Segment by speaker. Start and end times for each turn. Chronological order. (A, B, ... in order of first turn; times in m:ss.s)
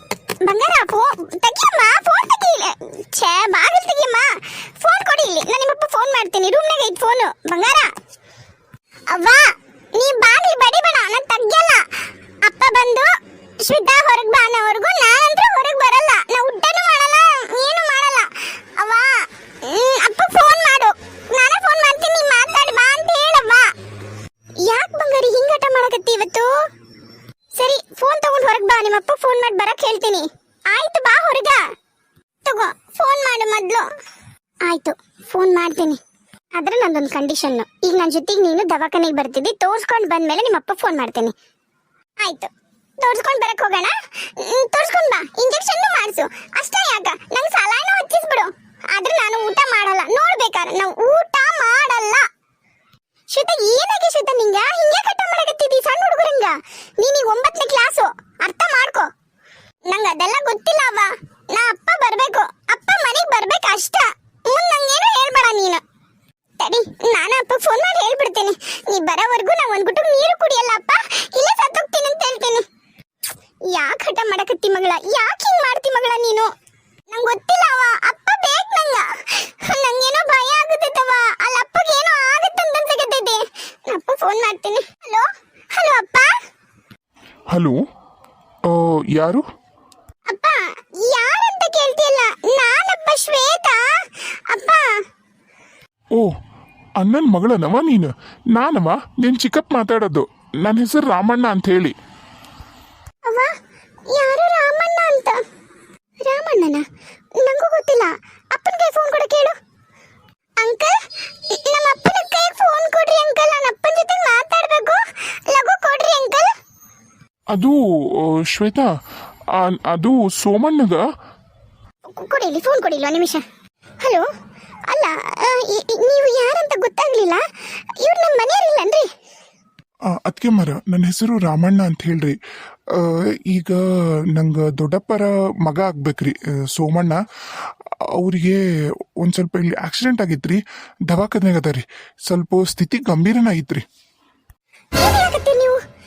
0:00.4-0:07.9 A
0:09.1-0:23.7 A
0:24.6-0:26.7 A
0:27.5-0:31.6 A
0:32.4-0:33.9 A
0:34.6-0:36.0 A
0:36.5-0:41.3 A
0:42.2-0:52.2 A
0:53.3-0:59.1 A
0:59.9-1:05.8 A
1:06.6-1:12.6 A
1:13.7-1:16.5 A
1:17.1-1:26.3 A
1:27.5-1:27.8 B
1:28.6-1:29.4 B
1:30.3-1:35.0 A
1:37.0-1:41.9 B
1:43.2-1:43.5 A
1:44.1-1:45.4 A
1:46.2-1:46.8 A
1:47.4-1:49.6 A
1:50.6-1:56.5 A
1:57.5-1:58.9 B
1:59.5-2:01.0 B
2:02.1-2:03.4 A
2:04.0-2:04.2 A
2:04.9-2:09.1 A
2:10.1-2:12.4 B
2:12.9-2:18.6 B
2:19.2-2:23.8 B
2:25.0-2:25.8 A